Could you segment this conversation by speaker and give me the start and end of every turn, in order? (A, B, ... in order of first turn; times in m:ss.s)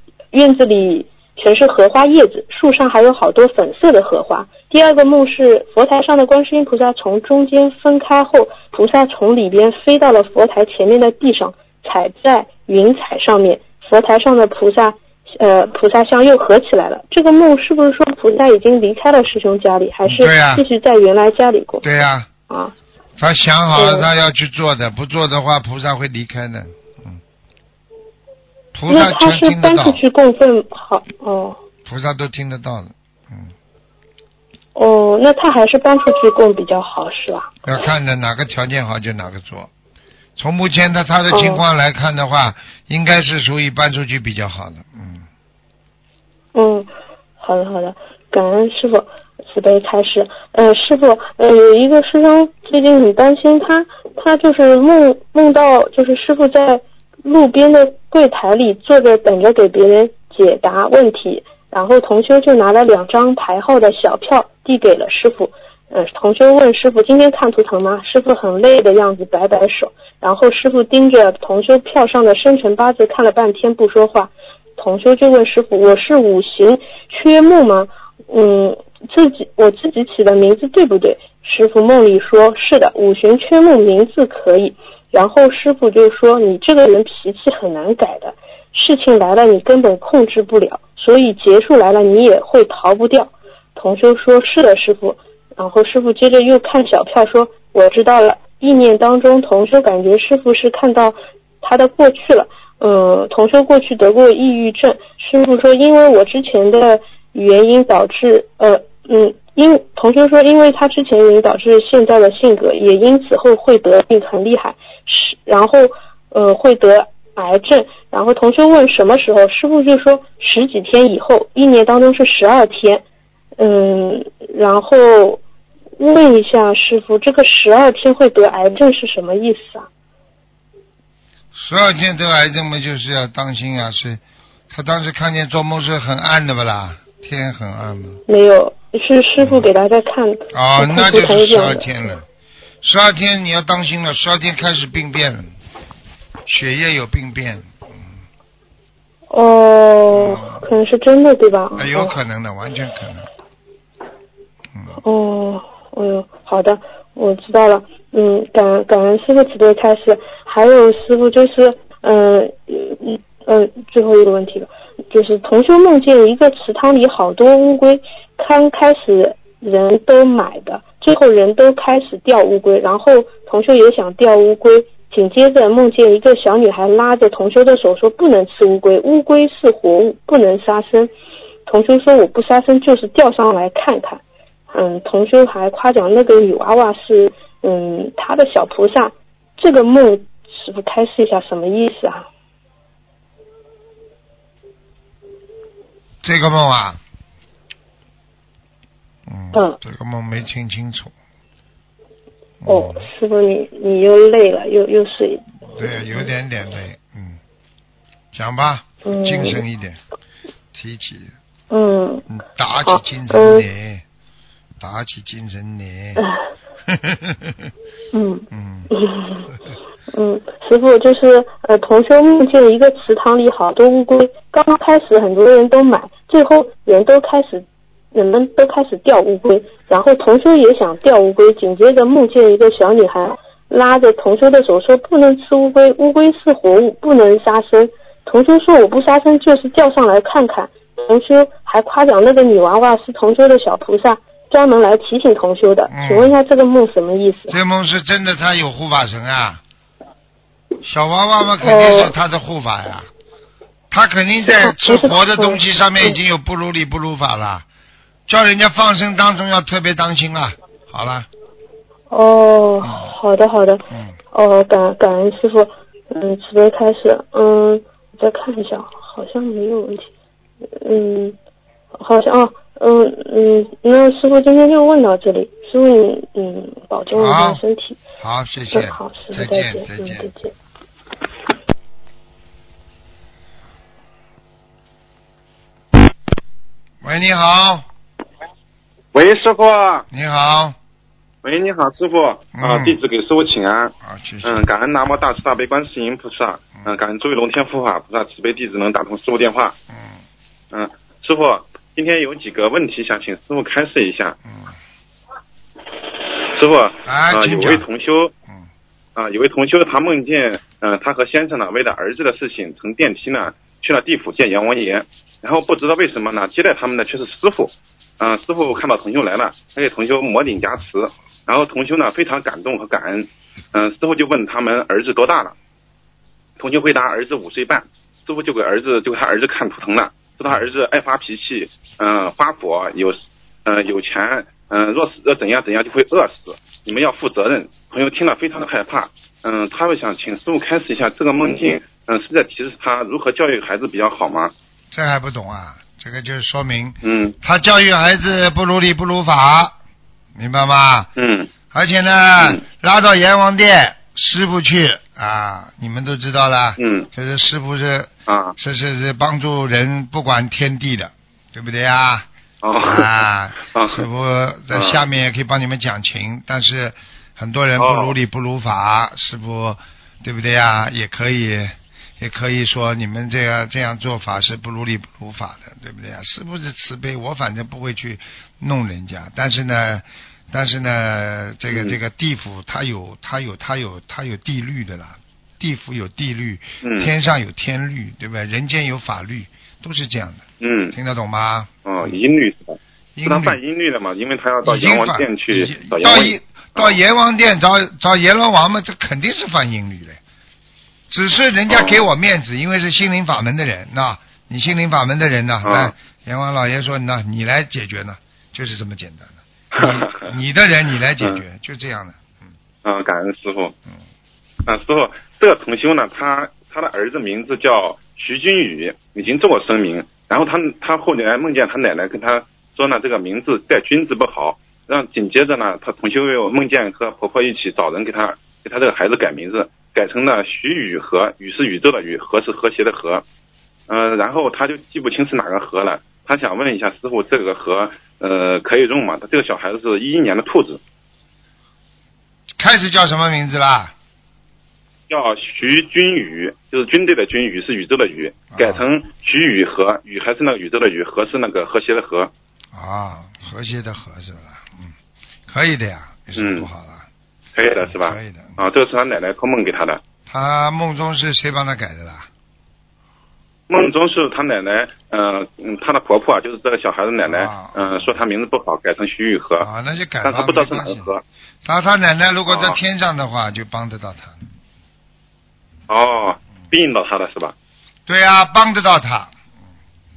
0:00.3-0:21.8 A
0:20.0-0:20.6 B
0:21.8-0:22.3 B
0:23.2-0:27.2 B
0:23.7-0:24.1 A
0:28.7-0:30.0 B
0:28.9-0:31.6 A
0:31.8-0:33.5 B
0:34.8-0:37.5 A
0:37.6-0:39.7 B
0:40.4-0:45.3 B
0:41.3-0:41.6 A
0:46.6-2:03.0 A
2:03.6-2:05.4 A
2:06.0-2:09.9 A
2:11.6-2:18.2 B
2:18.3-2:21.9 A
2:19.4-2:19.7 B
2:20.5-2:22.2 B
2:22.8-2:25.5 B
2:26.5-2:28.1 B
2:29.3-2:32.1 A
2:30.1-2:30.7 B
2:31.8-2:33.3 B
2:35.0-3:01.1 A
3:01.6-3:04.2 A
3:04.7-3:12.3 A
3:16.2-3:17.0 B
3:19.3-3:21.1 B
3:22.6-3:23.1 B
3:22.6-3:26.3 A
3:25.7-3:27.4 B
3:28.3-3:30.0 B
3:29.0-3:29.6 A
3:30.7-3:31.4 B
3:31.7-3:32.2 A
3:32.3-3:34.0 B
3:32.9-3:33.6 A
3:34.8-3:36.2 B
3:36.2-3:36.4 A
3:36.9-3:37.7 B
3:38.1-3:39.5 A
3:38.5-3:38.9 B
3:40.1-4:07.6 A
4:05.9-4:06.4 B
4:07.5-4:09.6 B
4:10.8-4:13.1 B
4:11.6-4:12.1 A
4:13.9-4:17.6 B
4:14.5-4:16.2 A
4:18.3-4:21.3 B
4:22.1-4:30.1 A
4:22.8-4:23.1 B
4:23.9-4:24.2 B
4:30.8-4:31.4 A
4:32.0-4:38.0 A
4:37.1-4:37.6 B
4:38.2-4:40.3 B
4:38.7-4:40.5 A
4:47.0-4:47.9 B
4:49.1-4:50.1 C
4:50.1-4:50.8 B
4:51.4-4:53.9 C
4:52.6-4:53.0 B
4:54.0-4:54.6 B
4:54.4-4:59.8 C
4:59.9-5:00.2 B
5:00.7-5:04.4 C
5:04.5-5:04.7 B
5:06.5-5:08.3 C
5:07.0-5:07.8 B
5:09.2-5:25.6 C
5:26.6-5:44.5 C
5:44.9-5:49.8 B
5:47.0-5:47.4 C
5:50.4-5:51.1 B
5:51.2-5:51.5 C
5:51.7-6:02.3 B
5:56.8-5:57.1 C
5:58.3-5:58.6 C
6:02.6-6:04.1 C
6:02.8-6:32.1 B
6:04.7-6:05.0 C
6:07.8-6:08.2 C
6:21.7-6:22.0 C
6:26.8-6:27.1 C
6:30.6-6:31.0 C
6:31.8-6:37.0 C
6:33.2-6:33.6 B
6:34.6-6:40.2 B
6:41.1-6:52.5 B
6:41.7-6:42.1 C
6:45.6-6:45.9 C
6:49.7-6:50.3 C
6:52.8-6:53.8 C
6:54.7-7:13.2 C
7:13.9-7:20.8 C
7:22.6-7:23.9 B
7:25.1-7:32.3 C
7:28.5-7:28.8 B
7:32.7-7:35.0 B
7:35.5-7:37.1 B
7:36.4-7:36.7 C
7:37.6-7:40.0 C
7:37.8-7:38.6 B
7:40.3-7:42.3 B
7:43.7-7:49.7 C
7:47.3-7:48.0 B
7:49.6-7:51.1 B
7:50.2-7:51.2 C
7:51.6-7:54.4 B
7:52.5-7:52.8 C
7:55.9-7:57.6 C
7:58.1-7:59.3 B